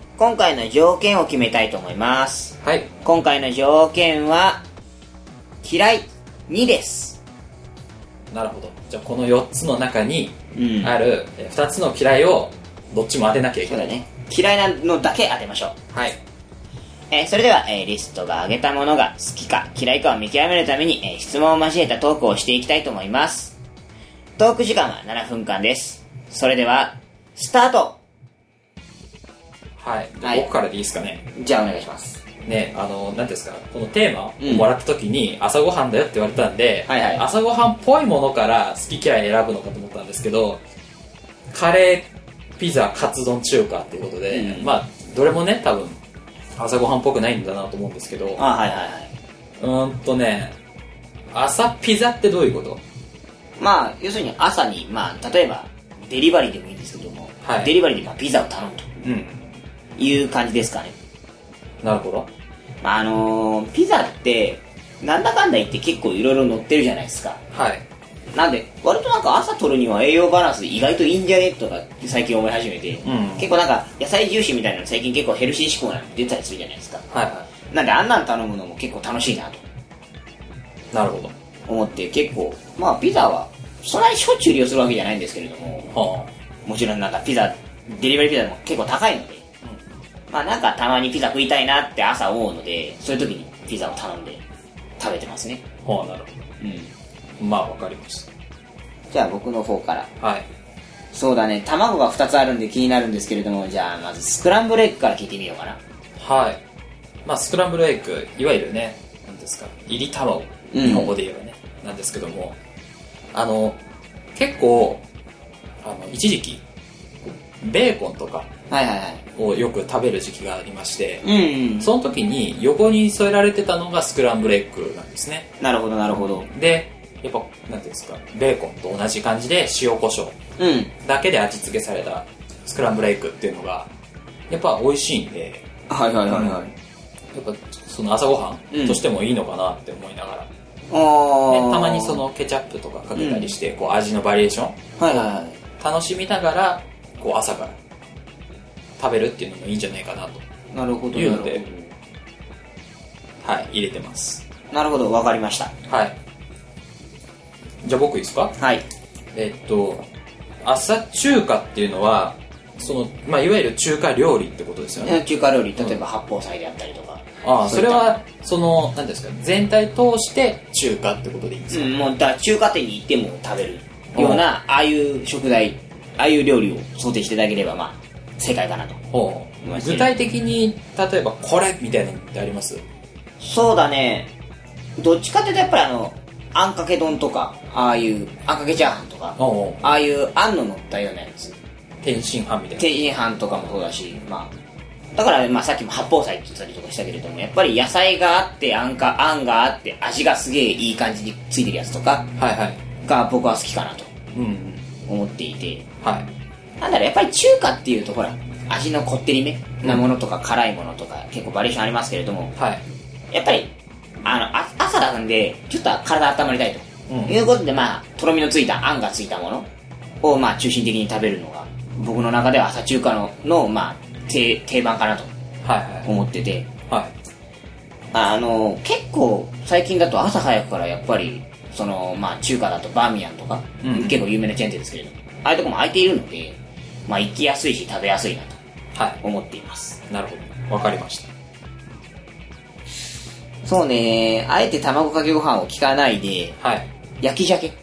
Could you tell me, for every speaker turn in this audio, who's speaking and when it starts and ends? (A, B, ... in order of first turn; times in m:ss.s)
0:00.2-0:04.6 A
0:02.6-0:02.9 B
0:05.6-0:07.2 A
0:08.3-0:13.9 B
0:10.6-0:11.0 A
0:13.7-0:15.8 A
0:15.9-0:16.2 B
0:17.1-0:23.6 A
0:24.4-0:28.0 A
0:29.8-0:31.3 B
0:31.4-0:32.2 A
0:32.4-0:40.6 B
0:34.4-0:34.7 A
0:36.9-0:37.2 A
0:41.5-0:42.1 B
0:42.6-0:46.0 B
0:44.3-0:44.7 A
0:46.6-0:48.4 B
0:48.4-0:49.1 A
0:49.6-0:50.5 B
0:51.3-0:52.8 B
0:53.6-0:59.0 A
0:57.4-0:57.7 B
0:59.0-0:59.5 B
1:00.0-1:01.0 A
1:01.8-1:02.3 B
1:02.8-1:07.4 A
1:07.5-1:07.8 B
1:08.3-1:17.1 A
1:13.0-1:13.5 B
1:17.1-1:17.5 B
1:17.7-1:19.6 A
1:20.9-1:21.3 B
1:21.7-1:25.9 A
1:25.9-1:26.3 B
1:26.7-1:29.4 A
1:30.3-1:34.4 A
1:35.0-1:35.6 A
1:35.8-1:36.3 B
1:36.6-1:36.9 A
1:37.4-1:38.3 B
1:39.1-1:40.1 A
1:40.2-1:40.5 B
1:41.1-1:45.8 A
1:46.2-1:46.6 B
1:47.2-1:52.6 B
1:50.7-1:51.1 A
1:53.3-1:53.8 B
1:54.4-1:55.0 B
1:55.8-1:56.6 B
1:57.6-1:58.5 B
1:58.7-1:59.2 A
1:59.4-2:01.2 B
2:01.2-2:01.9 A
2:01.8-2:05.5 B
2:05.6-2:06.5 A
2:06.2-2:10.4 B
2:10.6-2:10.9 A
2:11.0-2:13.9 B
2:14.5-2:15.6 B
2:15.9-2:16.7 A
2:16.3-2:16.6 B
2:17.3-2:20.5 B
2:18.7-2:19.0 A
2:20.9-2:22.2 A
2:21.5-2:27.8 B
2:23.2-2:23.5 A
2:25.0-2:25.6 A
2:29.0-2:30.4 B
2:30.7-2:31.9 A
2:31.1-2:31.6 B
2:33.4-2:34.4 B
2:34.7-2:35.7 A
2:35.9-2:36.2 B
2:37.8-2:38.6 B
2:38.6-2:38.8 A
2:39.4-2:40.1 B
2:40.6-2:45.2 B
2:45.0-2:48.2 A
2:47.4-2:51.9 B
2:51.7-2:59.0 A
2:54.2-2:54.4 B
2:59.1-3:02.8 B
2:59.6-3:00.1 A
3:03.4-3:04.3 A
3:05.0-3:11.6 A
3:09.4-3:09.8 B
3:12.0-3:12.9 B
3:12.8-3:14.5 A
3:15.2-3:22.3 A
3:22.4-3:22.8 B
3:23.0-3:24.1 A
3:24.3-3:24.9 B
3:25.1-3:25.9 A
3:26.0-3:26.3 B
3:26.8-3:32.5 A
3:32.6-3:32.8 B
3:33.3-3:33.7 A
3:34.2-3:39.7 A
3:37.1-3:37.4 B
3:40.2-3:45.3 A
3:45.6-3:46.1 B
3:46.0-3:46.7 A
3:48.1-3:58.6 A
3:53.8-3:54.2 B
3:58.9-3:59.2 B
3:59.2-4:00.0 A
4:00.1-4:01.3 B
4:03.6-4:06.6 A
4:06.6-4:06.9 B
4:07.2-4:07.8 A